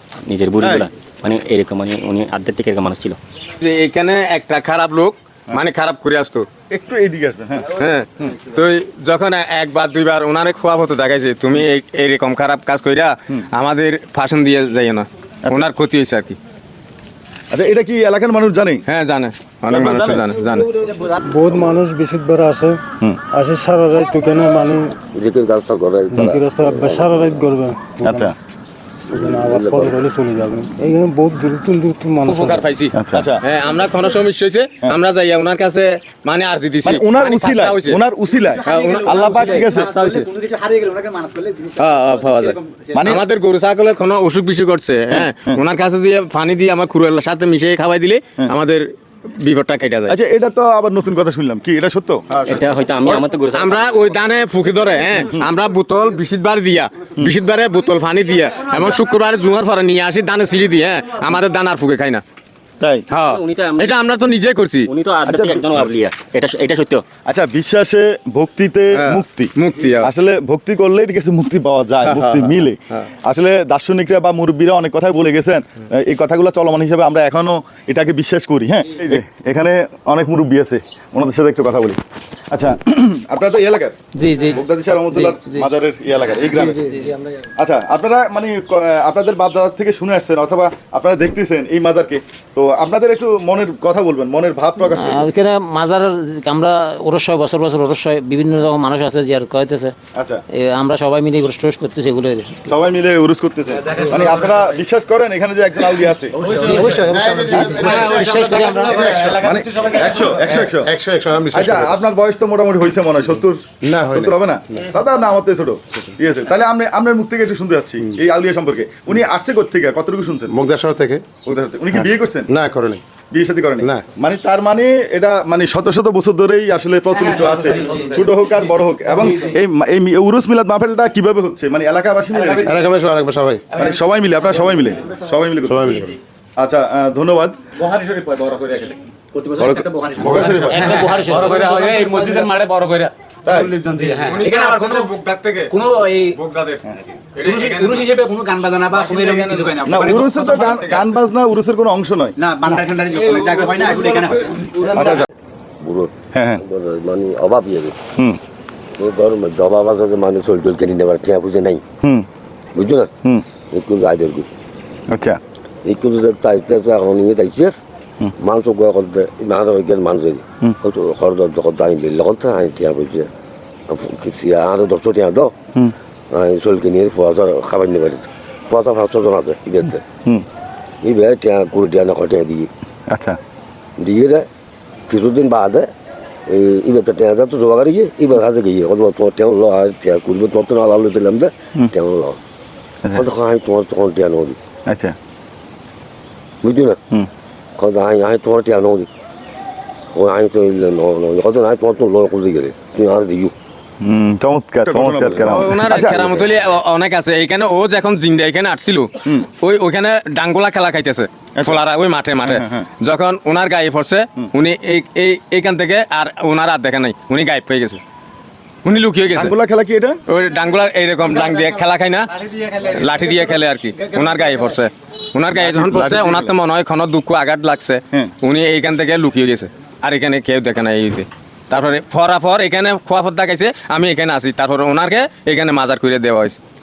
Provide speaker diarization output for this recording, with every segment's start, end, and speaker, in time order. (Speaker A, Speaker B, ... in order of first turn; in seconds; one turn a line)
Speaker A: 0.3-3.2
Speaker B: 0.6-0.9
Speaker C: 3.6-6.5
Speaker B: 6.7-7.8
Speaker C: 7.8-16.4
Speaker B: 17.5-18.8
Speaker C: 18.9-20.7
Speaker B: 19.8-20.1
Speaker D: 21.0-22.8
Speaker D: 23.3-25.0
Speaker E: 25.1-27.4
Speaker D: 26.2-28.3
Speaker B: 28.0-28.4
Speaker E: 29.1-30.1
Speaker D: 29.2-32.6
Speaker C: 32.3-38.0
Speaker B: 33.0-33.4
Speaker B: 36.9-40.0
Speaker C: 38.6-40.8
Speaker F: 40.5-41.4
Speaker C: 41.8-48.9
Speaker B: 42.9-43.3
Speaker B: 45.1-45.5
Speaker C: 49.4-50.2
Speaker B: 50.1-52.2
Speaker C: 52.3-62.2
Speaker A: 52.5-54.0
Speaker B: 62.8-63.0
Speaker C: 63.1-64.9
Speaker A: 63.3-63.9
Speaker A: 64.9-67.0
Speaker B: 65.3-65.7
Speaker B: 67.3-82.0
Speaker C: 68.9-70.1
Speaker C: 72.0-73.1
Speaker B: 82.5-87.0
Speaker G: 84.2-84.6
Speaker G: 85.1-85.6
Speaker G: 86.8-87.1
Speaker B: 87.6-95.3
Speaker G: 94.9-99.9
Speaker B: 100.2-100.4
Speaker G: 100.5-102.7
Speaker B: 102.7-106.4
Speaker C: 104.0-104.6
Speaker H: 106.6-109.5
Speaker G: 107.9-109.3
Speaker C: 108.0-110.3
Speaker B: 109.3-110.9
Speaker H: 110.2-112.0
Speaker B: 111.5-120.6
Speaker H: 113.8-114.3
Speaker H: 120.5-121.3
Speaker B: 121.5-122.5
Speaker H: 122.0-123.0
Speaker B: 123.3-132.8
Speaker H: 132.7-133.7
Speaker B: 133.7-136.0
Speaker H: 135.7-136.2
Speaker B: 136.6-137.6
Speaker C: 138.0-138.9
Speaker B: 139.6-140.8
Speaker C: 140.2-143.1
Speaker H: 140.2-141.0
Speaker G: 140.7-141.5
Speaker B: 143.5-143.8
Speaker C: 143.9-151.2
Speaker F: 144.0-144.8
Speaker F: 148.1-149.5
Speaker B: 149.8-152.4
Speaker F: 152.4-154.3
Speaker C: 152.9-155.2
Speaker B: 154.8-155.3
Speaker E: 155.8-158.0
Speaker B: 156.3-156.6
Speaker E: 159.0-161.8
Speaker B: 162.0-162.3
Speaker E: 162.8-163.1
Speaker E: 163.7-164.5
Speaker B: 165.1-165.4
Speaker E: 165.8-167.8
Speaker E: 168.4-173.3
Speaker E: 173.9-175.5
Speaker E: 176.3-180.0
Speaker E: 181.0-182.7
Speaker B: 183.1-183.4
Speaker E: 184.0-184.5
Speaker E: 185.1-185.9
Speaker E: 186.5-192.4
Speaker E: 193.2-194.6
Speaker B: 194.9-195.2
Speaker E: 196.6-197.0
Speaker E: 197.8-199.1
Speaker E: 200.1-203.5
Speaker B: 204.0-206.4
Speaker E: 205.3-206.3
Speaker C: 205.4-218.0
Speaker B: 212.4-212.9
Speaker C: 218.8-219.5
Speaker B: 219.3-220.2
Speaker C: 220.3-236.6
Speaker B: 225.5-226.5